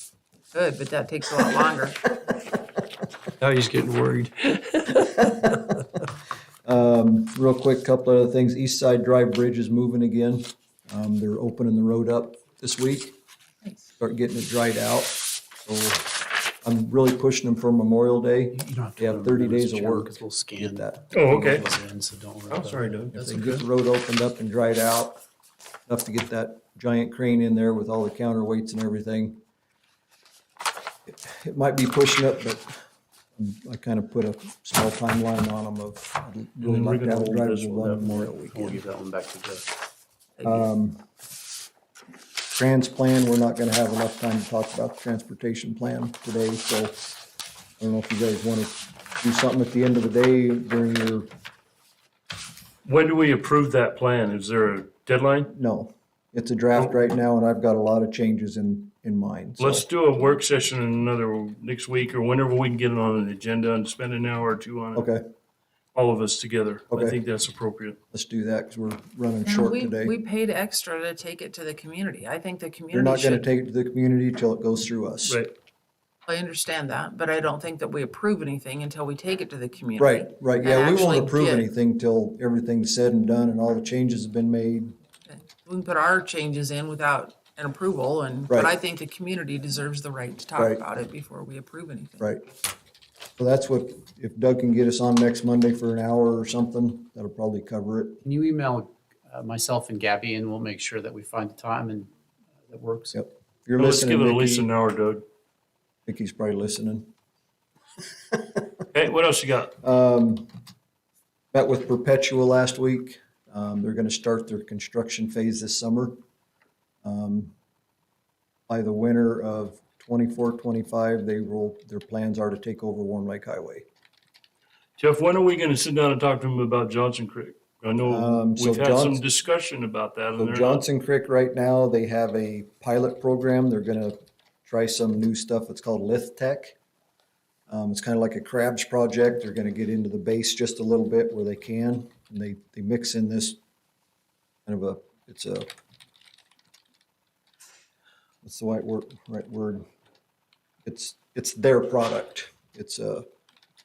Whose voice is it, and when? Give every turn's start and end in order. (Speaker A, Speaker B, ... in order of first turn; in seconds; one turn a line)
Speaker A: 0.5-2.0
Speaker B: 3.4-4.9
Speaker C: 6.6-13.1
Speaker C: 14.0-16.1
Speaker C: 16.6-21.6
Speaker D: 18.5-23.0
Speaker B: 21.1-21.6
Speaker B: 22.5-23.6
Speaker C: 23.1-25.2
Speaker C: 25.9-29.4
Speaker C: 31.1-32.8
Speaker C: 33.4-38.8
Speaker B: 36.6-38.1
Speaker D: 37.8-39.7
Speaker A: 40.4-40.6
Speaker C: 40.4-41.0
Speaker C: 42.5-47.0
Speaker C: 47.8-51.3
Speaker B: 52.8-55.5
Speaker C: 55.5-59.9
Speaker B: 59.6-65.1
Speaker C: 64.9-65.2
Speaker B: 65.9-68.0
Speaker C: 66.9-67.2
Speaker C: 68.1-70.1
Speaker A: 69.4-73.5
Speaker C: 72.9-75.4
Speaker B: 75.2-75.5
Speaker A: 76.3-81.7
Speaker C: 80.0-84.9
Speaker A: 85.3-92.3
Speaker C: 90.5-90.8
Speaker C: 92.2-92.5
Speaker C: 93.4-98.2
Speaker D: 98.2-103.2
Speaker C: 103.1-104.7
Speaker B: 103.8-105.2
Speaker C: 106.0-107.1
Speaker B: 108.9-109.7
Speaker C: 109.8-110.5
Speaker C: 111.5-116.2
Speaker C: 117.0-117.5
Speaker C: 118.7-123.8
Speaker B: 125.0-130.8
Speaker C: 128.0-129.2
Speaker C: 130.4-136.8
Speaker C: 137.7-143.6
Speaker C: 144.7-145.7
Speaker C: 148.4-149.8
Speaker C: 150.8-153.2